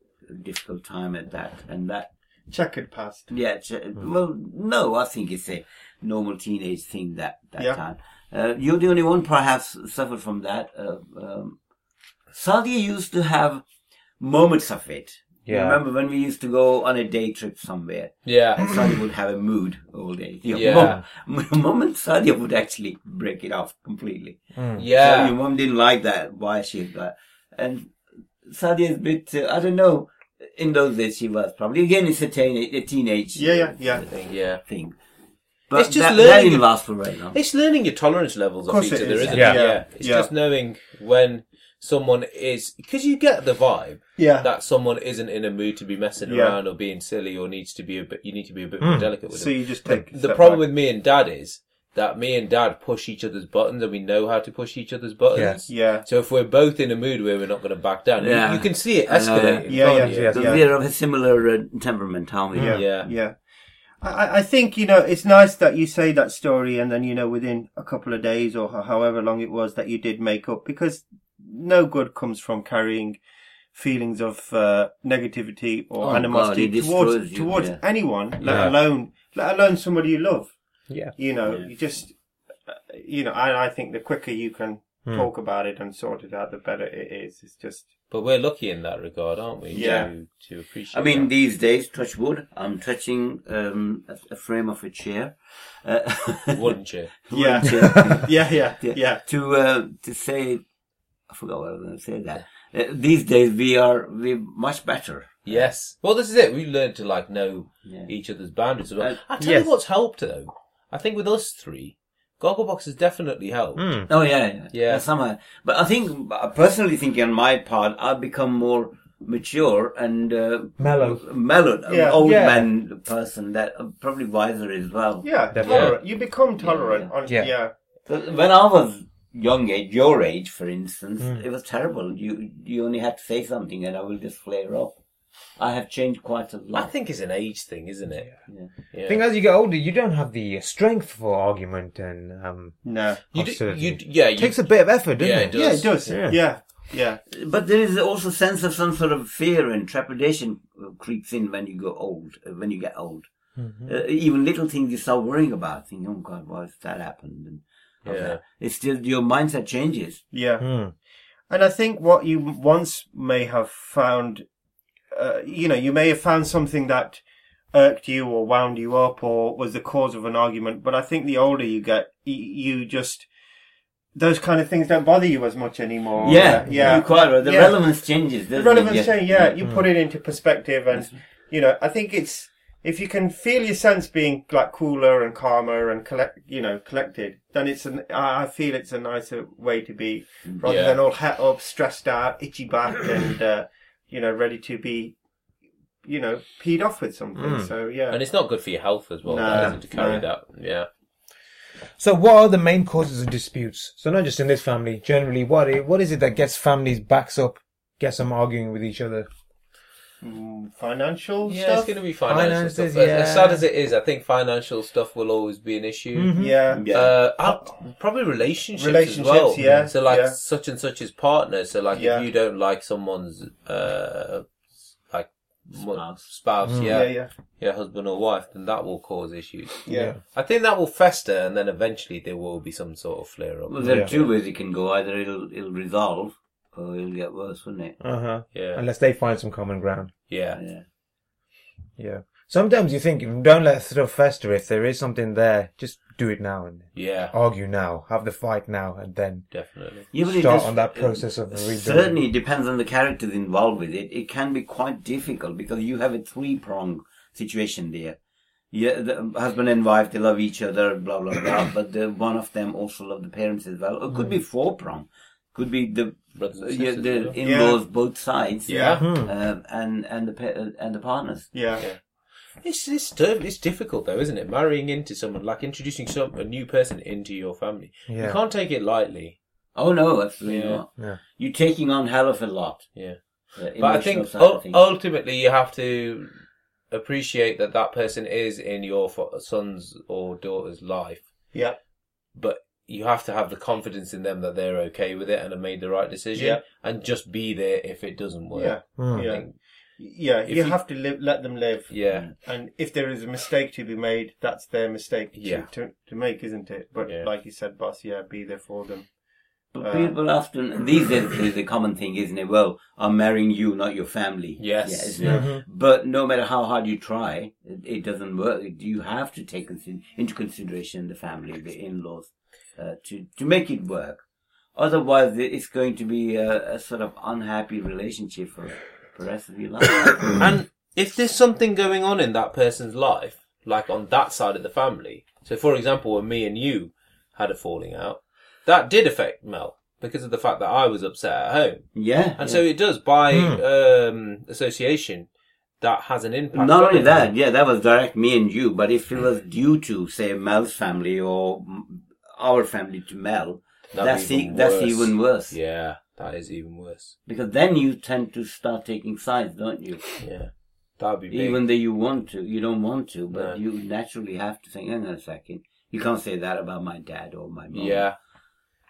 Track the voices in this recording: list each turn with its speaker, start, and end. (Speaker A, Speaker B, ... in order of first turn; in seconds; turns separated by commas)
Speaker A: 0.2-2.1, Speaker B: 2.5-3.3, Speaker A: 3.3-11.6, Speaker A: 12.3-13.6, Speaker A: 14.2-24.4, Speaker C: 15.5-15.8, Speaker D: 18.2-18.7, Speaker D: 20.5-21.0, Speaker C: 24.6-24.9, Speaker D: 24.8-25.3, Speaker A: 24.9-27.9, Speaker A: 28.4-35.0, Speaker B: 33.4-34.0, Speaker D: 34.1-34.6, Speaker A: 35.7-37.4, Speaker D: 35.7-36.7, Speaker D: 37.3-60.3, Speaker B: 38.7-40.3, Speaker C: 39.3-39.6, Speaker B: 44.2-44.5, Speaker B: 46.2-46.6, Speaker C: 48.8-49.1, Speaker B: 49.3-50.6, Speaker C: 55.3-55.6, Speaker B: 55.7-56.0, Speaker A: 58.2-63.1, Speaker B: 59.7-60.6, Speaker C: 59.8-60.6, Speaker B: 62.6-63.4, Speaker D: 62.7-63.1, Speaker B: 64.0-73.2, Speaker B: 73.7-80.5, Speaker A: 76.0-77.8, Speaker C: 78.4-78.7, Speaker B: 81.1-82.1, Speaker B: 82.7-87.9, Speaker D: 88.1-91.3, Speaker B: 89.7-90.1, Speaker A: 89.8-90.1, Speaker A: 90.9-96.7, Speaker D: 96.5-97.1, Speaker A: 97.2-100.6, Speaker B: 97.3-99.2, Speaker A: 101.3-105.7, Speaker D: 105.4-114.0, Speaker A: 107.8-108.1, Speaker C: 109.4-109.7, Speaker C: 113.8-114.1, Speaker A: 114.1-125.8, Speaker D: 114.7-115.0, Speaker C: 120.8-121.2, Speaker B: 121.9-122.2, Speaker C: 122.2-122.7, Speaker B: 125.2-127.7, Speaker C: 125.5-125.9, Speaker D: 125.6-126.0, Speaker A: 126.6-127.1, Speaker A: 128.1-134.9, Speaker A: 135.6-136.9, Speaker D: 136.7-138.3, Speaker D: 138.9-139.2, Speaker C: 139.1-146.4, Speaker B: 142.8-143.2, Speaker D: 143.3-146.2, Speaker B: 145.5-147.2, Speaker A: 147.3-153.3, Speaker C: 153.6-153.9, Speaker A: 153.8-160.2, Speaker D: 158.0-158.4, Speaker B: 160.3-160.7, Speaker C: 160.6-160.9, Speaker B: 161.5-164.4, Speaker B: 165.1-167.2, Speaker B: 167.7-173.3, Speaker B: 174.1-177.8, Speaker A: 176.2-179.5, Speaker C: 176.3-177.0, Speaker B: 178.5-195.1, Speaker D: 190.6-191.0, Speaker B: 196.0-198.2, Speaker C: 197.3-197.7, Speaker D: 198.1-200.9, Speaker B: 199.2-200.2, Speaker C: 199.5-199.8, Speaker C: 202.0-209.3, Speaker B: 210.2-211.9, Speaker D: 211.4-216.3, Speaker C: 212.3-213.6, Speaker C: 216.1-216.6, Speaker B: 216.3-216.9, Speaker A: 216.7-217.1, Speaker D: 216.8-224.5, Speaker B: 217.4-217.7, Speaker B: 218.8-220.4, Speaker C: 219.6-219.9, Speaker B: 221.9-222.2, Speaker D: 225.1-234.3, Speaker A: 225.8-226.3, Speaker C: 226.6-227.0, Speaker B: 226.8-227.3, Speaker B: 229.8-230.2, Speaker C: 229.9-230.2, Speaker A: 233.7-237.9, Speaker C: 233.8-234.1, Speaker C: 238.0-240.1, Speaker D: 238.5-238.8, Speaker D: 240.3-240.6, Speaker A: 240.5-240.8, Speaker C: 242.0-249.5, Speaker D: 246.9-247.3, Speaker D: 249.5-250.1, Speaker A: 250.1-258.2, Speaker C: 250.2-252.2, Speaker A: 258.7-271.5, Speaker D: 266.3-267.4, Speaker B: 267.4-267.8, Speaker B: 268.7-269.0, Speaker D: 268.7-269.1, Speaker C: 269.0-269.3, Speaker B: 271.5-271.9, Speaker D: 272.6-279.4, Speaker C: 278.1-278.4, Speaker A: 279.7-282.9, Speaker D: 280.4-280.8, Speaker A: 283.5-284.8, Speaker D: 283.8-286.3, Speaker D: 286.9-291.2, Speaker D: 292.4-299.6, Speaker B: 296.4-296.6, Speaker B: 298.5-309.1, Speaker C: 299.0-299.3, Speaker D: 300.4-300.8, Speaker D: 301.9-302.3, Speaker A: 302.1-302.3, Speaker D: 305.4-305.7, Speaker A: 309.7-324.2, Speaker B: 309.8-310.1, Speaker D: 314.6-315.2, Speaker C: 315.2-315.6, Speaker A: 324.8-330.4, Speaker D: 330.4-345.3, Speaker A: 341.9-342.6, Speaker C: 343.3-343.6, Speaker D: 345.8-347.2, Speaker A: 346.5-355.6, Speaker D: 353.9-357.1, Speaker A: 357.3-360.2, Speaker D: 360.2-361.6, Speaker A: 361.3-368.1, Speaker D: 363.3-363.6, Speaker D: 367.7-368.1